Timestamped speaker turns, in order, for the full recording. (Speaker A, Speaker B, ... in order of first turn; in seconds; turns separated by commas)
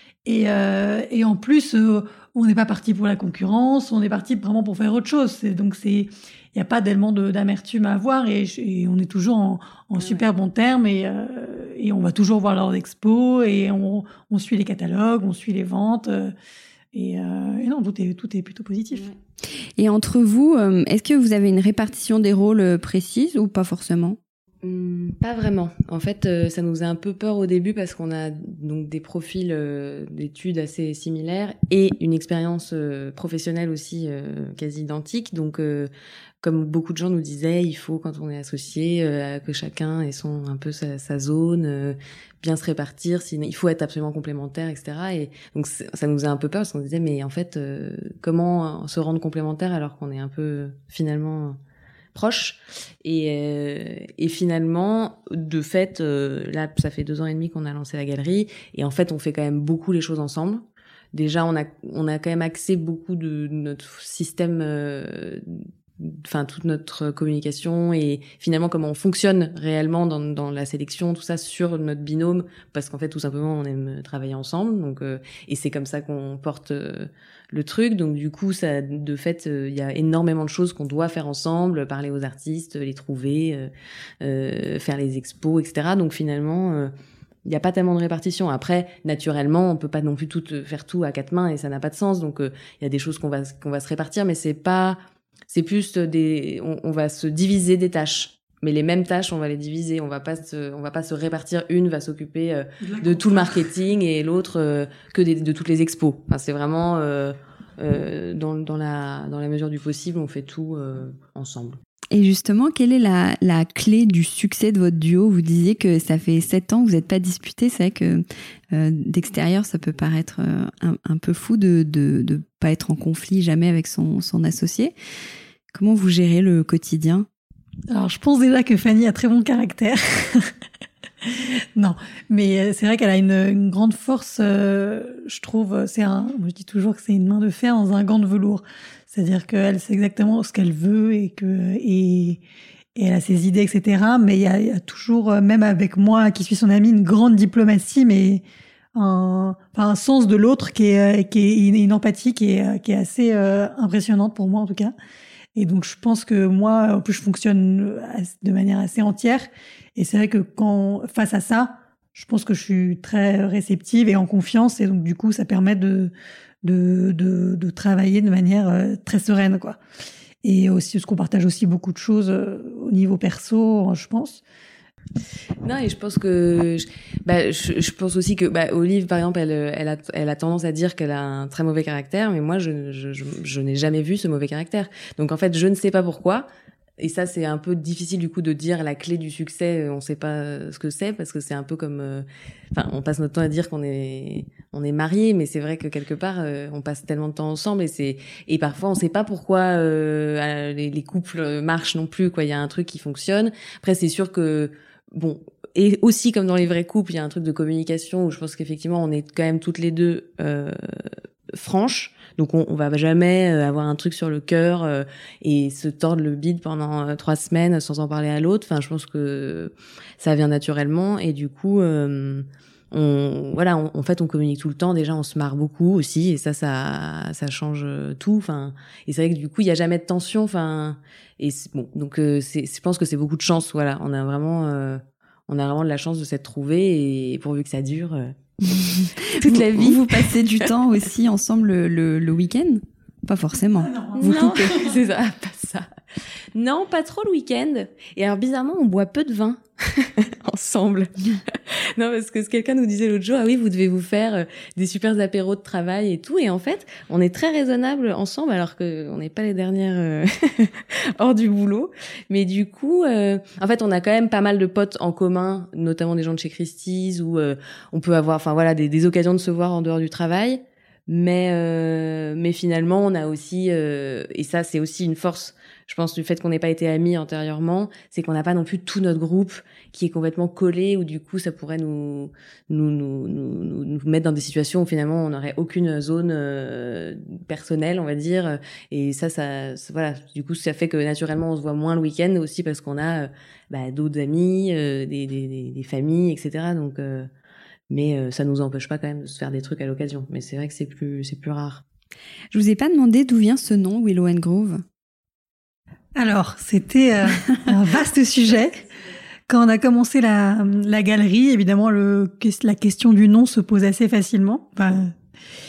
Speaker A: 0.2-16.3, Speaker B: 10.0-10.3, Speaker A: 16.9-19.1, Speaker C: 19.8-24.2, Speaker B: 24.6-35.9, Speaker B: 36.4-51.6, Speaker B: 52.1-83.7, Speaker B: 84.2-86.9, Speaker B: 87.5-95.0, Speaker B: 95.5-111.8, Speaker A: 102.8-103.7, Speaker C: 112.1-124.9, Speaker C: 125.7-127.3, Speaker A: 127.9-130.5, Speaker A: 131.2-142.4, Speaker A: 143.0-154.9, Speaker A: 155.6-169.8, Speaker A: 170.4-174.4, Speaker B: 175.6-186.5, Speaker B: 187.0-240.7, Speaker C: 239.0-244.8, Speaker A: 243.8-245.0, Speaker B: 244.2-245.9, Speaker B: 246.6-297.3, Speaker B: 297.9-301.8, Speaker C: 302.5-304.8, Speaker A: 306.2-308.8, Speaker A: 309.5-315.1